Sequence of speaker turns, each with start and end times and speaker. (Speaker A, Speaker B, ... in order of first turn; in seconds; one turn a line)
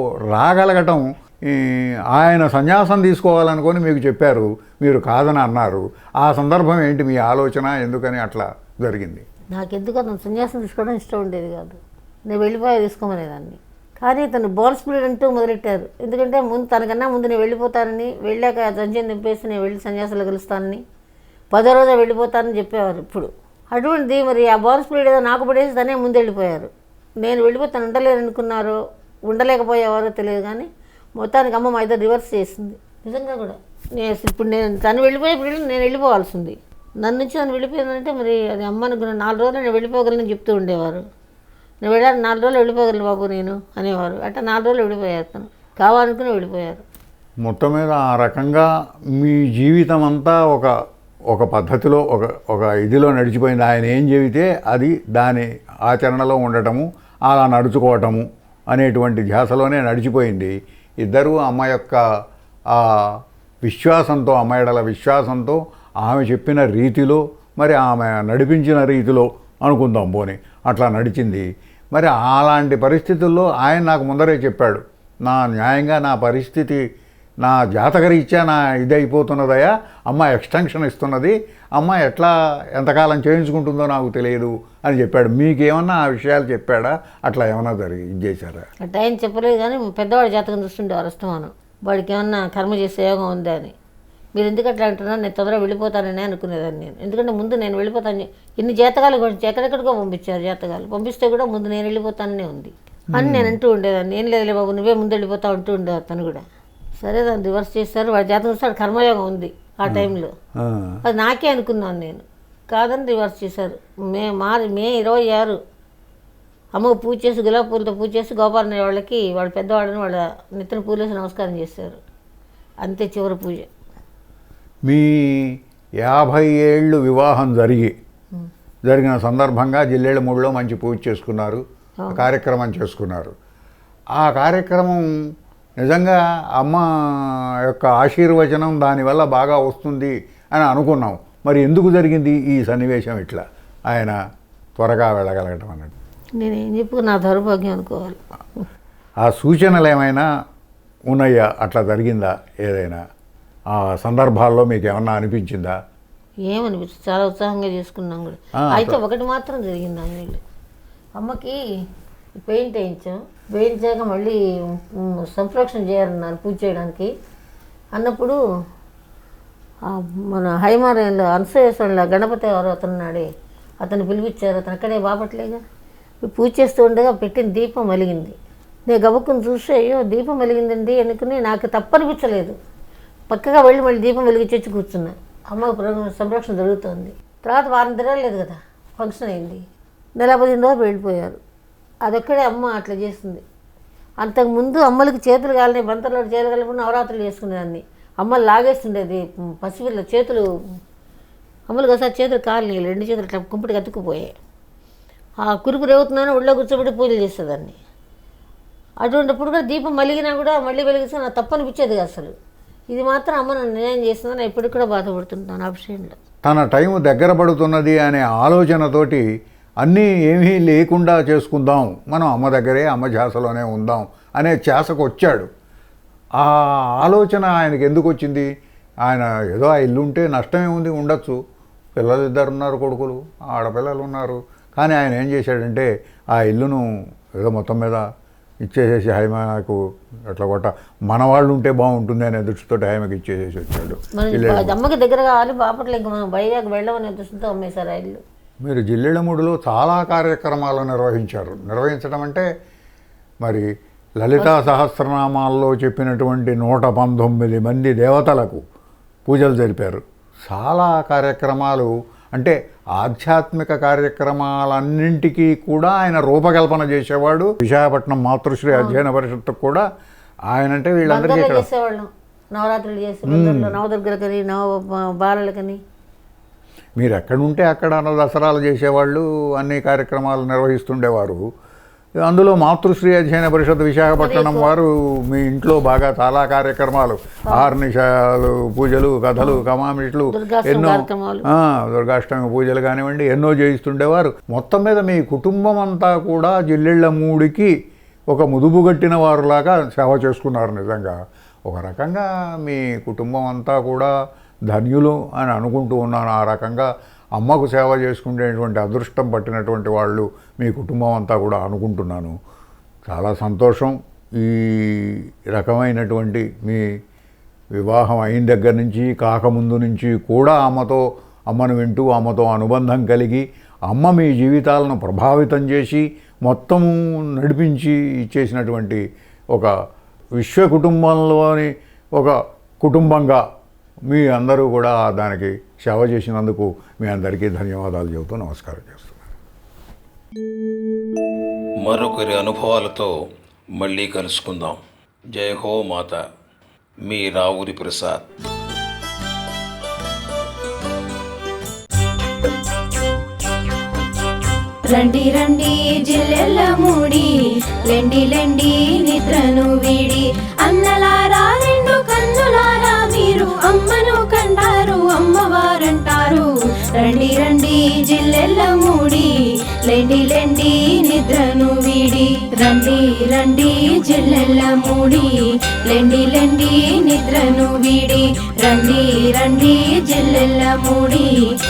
Speaker A: 0.3-9.2
Speaker B: 9.5-20.8
Speaker B: 21.5-41.0
Speaker B: 41.8-46.8
Speaker A: 47.4-50.7
Speaker A: 51.3-62.0
Speaker A: 62.7-76.8
Speaker A: 77.4-88.7
Speaker B: 88.8-93.7
Speaker B: 94.3-106.4
Speaker A: 103.1-103.6
Speaker B: 107.0-110.3
Speaker A: 109.9-111.0
Speaker B: 111.0-115.6
Speaker B: 116.7-122.0
Speaker B: 122.8-123.7
Speaker A: 124.8-127.9
Speaker A: 128.9-133.3
Speaker B: 132.0-132.3
Speaker A: 134.2-135.0
Speaker A: 135.8-144.2
Speaker A: 144.8-145.9
Speaker B: 146.4-148.6
Speaker A: 149.2-150.3
Speaker A: 151.1-153.0
Speaker A: 153.7-155.8
Speaker B: 156.5-160.4
Speaker A: 158.6-159.0
Speaker B: 161.2-161.6
Speaker B: 162.3-167.1
Speaker B: 167.9-168.4
Speaker B: 169.8-173.3
Speaker B: 173.8-175.6
Speaker B: 176.2-182.5
Speaker B: 183.3-189.6
Speaker B: 190.2-191.4
Speaker B: 192.0-193.4
Speaker B: 194.2-200.5
Speaker B: 201.7-204.3
Speaker B: 205.4-207.8
Speaker B: 209.0-212.3
Speaker B: 212.9-216.2
Speaker A: 216.4-219.2
Speaker A: 219.8-225.5
Speaker A: 226.4-228.5
Speaker A: 229.0-231.4
Speaker A: 232.0-236.8
Speaker A: 237.4-238.1
Speaker A: 238.6-244.8
Speaker B: 244.1-248.2
Speaker A: 248.6-252.5
Speaker A: 253.4-253.7
Speaker A: 254.2-258.6
Speaker B: 254.4-254.7
Speaker A: 259.3-269.8
Speaker B: 268.7-269.0
Speaker A: 270.5-271.6
Speaker B: 271.1-275.8
Speaker A: 273.2-273.8
Speaker A: 277.0-281.4
Speaker A: 282.2-297.7
Speaker B: 284.1-284.7
Speaker B: 290.3-291.4
Speaker A: 298.3-301.2
Speaker A: 301.7-304.1
Speaker A: 304.7-312.3
Speaker A: 313.1-316.9
Speaker A: 317.8-329.7
Speaker A: 330.4-333.4
Speaker A: 334.1-339.3
Speaker C: 341.8-344.8
Speaker C: 345.3-346.2
Speaker C: 347.0-348.3
Speaker D: 354.8-357.3
Speaker D: 357.9-369.3
Speaker D: 369.9-375.3
Speaker D: 375.9-381.3